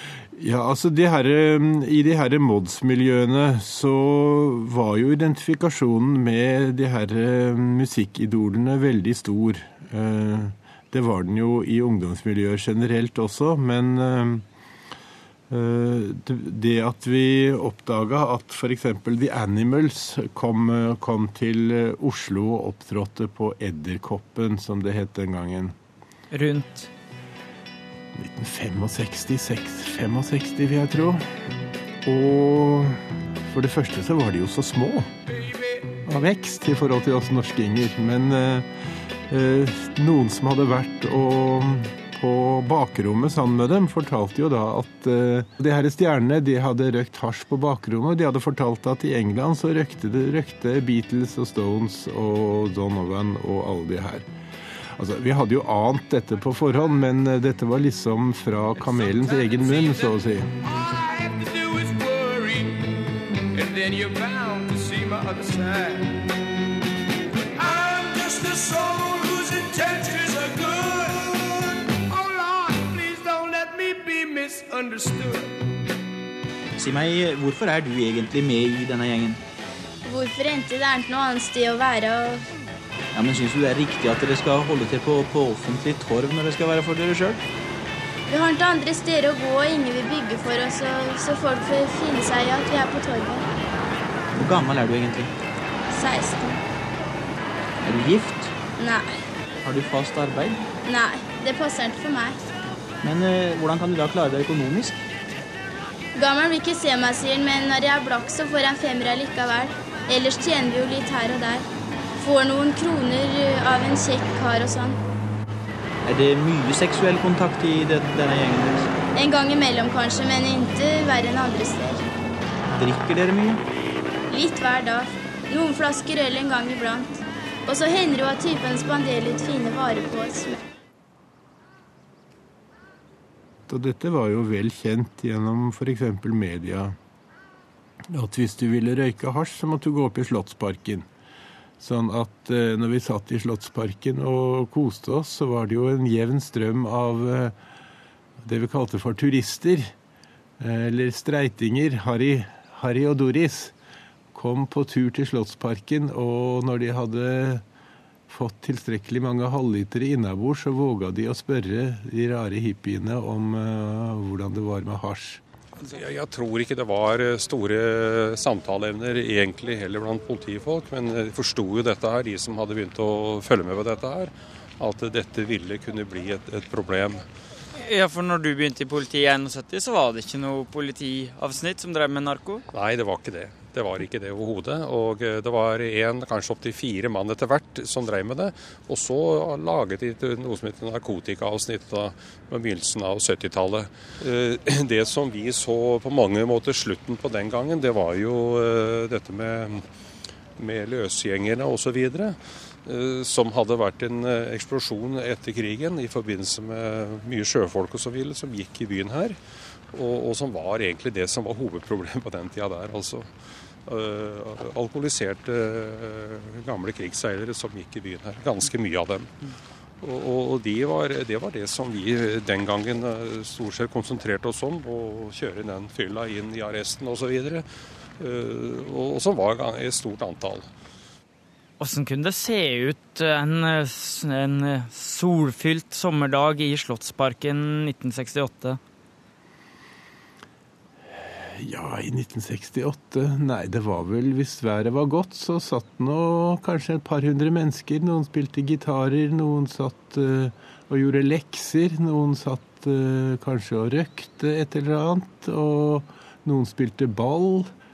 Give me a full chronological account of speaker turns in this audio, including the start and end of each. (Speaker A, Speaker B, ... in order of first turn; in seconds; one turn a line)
Speaker A: 0.4-14.4
Speaker A: 15.5-25.7
Speaker B: 26.3-26.9
Speaker A: 28.2-31.2
Speaker A: 32.0-35.1
Speaker A: 36.1-38.7
Speaker A: 39.3-54.3
Speaker A: 55.0-60.5
Speaker C: 59.0-60.1
Speaker C: 60.6-62.9
Speaker C: 63.5-66.2
Speaker C: 67.6-75.7
Speaker D: 76.8-79.4
Speaker E: 80.0-82.4
Speaker D: 83.2-87.4
Speaker E: 88.3-93.5
Speaker D: 94.4-95.3
Speaker E: 95.9-96.6
Speaker D: 97.8-98.5
Speaker E: 98.8-99.1
Speaker D: 99.6-100.6
Speaker E: 100.9-102.4
Speaker D: 103.0-104.9
Speaker E: 106.2-111.7
Speaker E: 112.2-115.0
Speaker D: 116.1-118.9
Speaker E: 119.2-122.1
Speaker D: 122.8-123.6
Speaker E: 124.3-130.6
Speaker A: 133.7-136.9
Speaker A: 138.1-141.1
Speaker A: 141.8-147.6
Speaker A: 148.4-149.9
Speaker A: 150.6-153.7
Speaker A: 154.3-157.6
Speaker A: 158.3-165.4
Speaker F: 165.8-177.2
Speaker B: 177.8-182.6
Speaker F: 182.7-199.8
Speaker F: 200.6-209.4
Speaker F: 209.9-213.3
Speaker F: 213.9-219.3
Speaker F: 220.0-227.6
Speaker F: 228.2-230.7
Speaker B: 231.8-238.8
Speaker A: 241.2-257.7